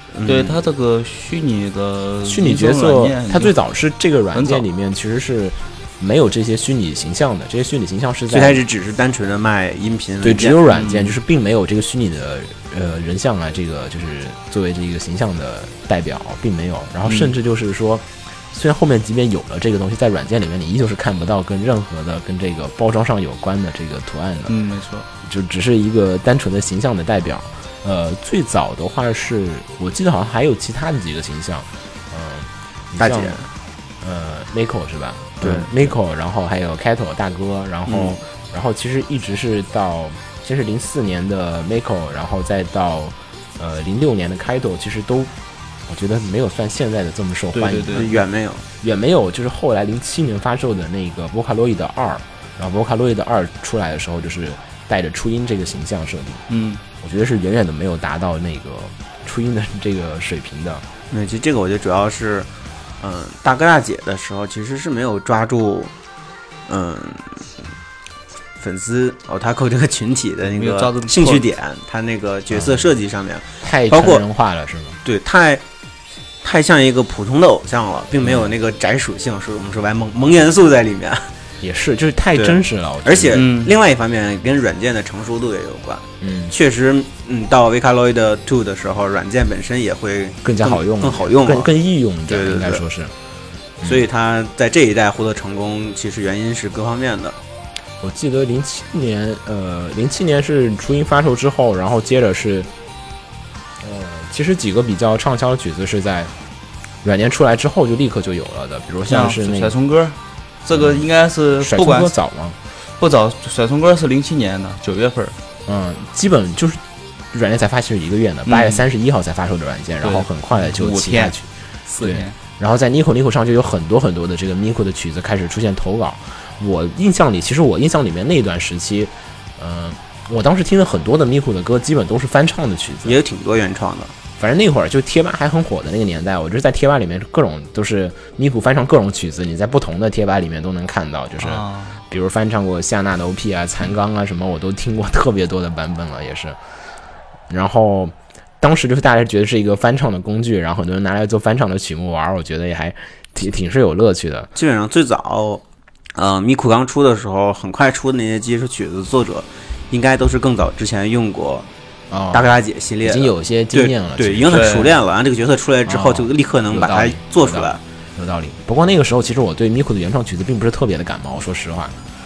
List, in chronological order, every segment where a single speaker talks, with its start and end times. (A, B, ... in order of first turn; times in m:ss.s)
0:00.1-0:00.6 A
0:00.2-0:03.5 B
0:02.2-0:08.6 C
0:04.3-0:04.6 B
0:08.3-0:10.6 A
0:10.2-0:24.6 C
0:10.6-0:11.2 B
0:17.0-0:17.3 B
0:24.5-0:25.1 B
0:25.2-0:33.4 C
0:33.0-0:33.5 A
0:34.0-0:45.3 C
0:35.4-0:35.9 A
0:37.9-0:38.2 A
0:45.9-0:48.1 C
0:47.5-0:48.1 B
0:47.9-0:48.6 A
0:48.8-0:56.4 C
0:56.5-0:56.8 B
0:57.0-1:00.8 C
1:01.1-1:02.5 A
1:03.0-1:05.9 A
1:06.7-1:07.5 A
1:08.6-1:14.2 A
1:10.6-1:11.4 B
1:12.5-1:12.9 C
1:13.6-1:15.0 C
1:15.0-1:15.6 A
1:16.4-1:21.3 A
1:18.2-1:18.5 C
1:21.6-1:23.4 C
1:22.3-1:31.7 A
1:23.3-1:23.7 B
1:26.2-1:26.5 C
1:30.4-1:33.1 C
1:32.2-1:32.8 A
1:33.8-1:34.0 C
1:33.8-1:37.4 A
1:38.0-1:42.7 C
1:43.8-1:46.3 C
1:47.0-1:49.8 C
1:49.0-1:52.1 B
1:50.7-1:51.1 C
1:51.6-1:52.6 C
1:52.8-1:55.4 B
1:55.6-2:01.5 C
1:58.5-1:58.8 B
2:00.0-2:02.3 B
2:02.0-2:13.2 C
2:13.0-2:14.1 A
2:14.4-2:26.6 C
2:21.4-2:22.0 B
2:27.5-2:34.5 C
2:34.5-2:35.6 A
2:36.1-2:41.7 A
2:42.1-2:42.5 C
2:42.3-2:47.8 A
2:43.0-2:44.6 C
2:44.5-2:44.9 B
2:45.9-2:52.0 C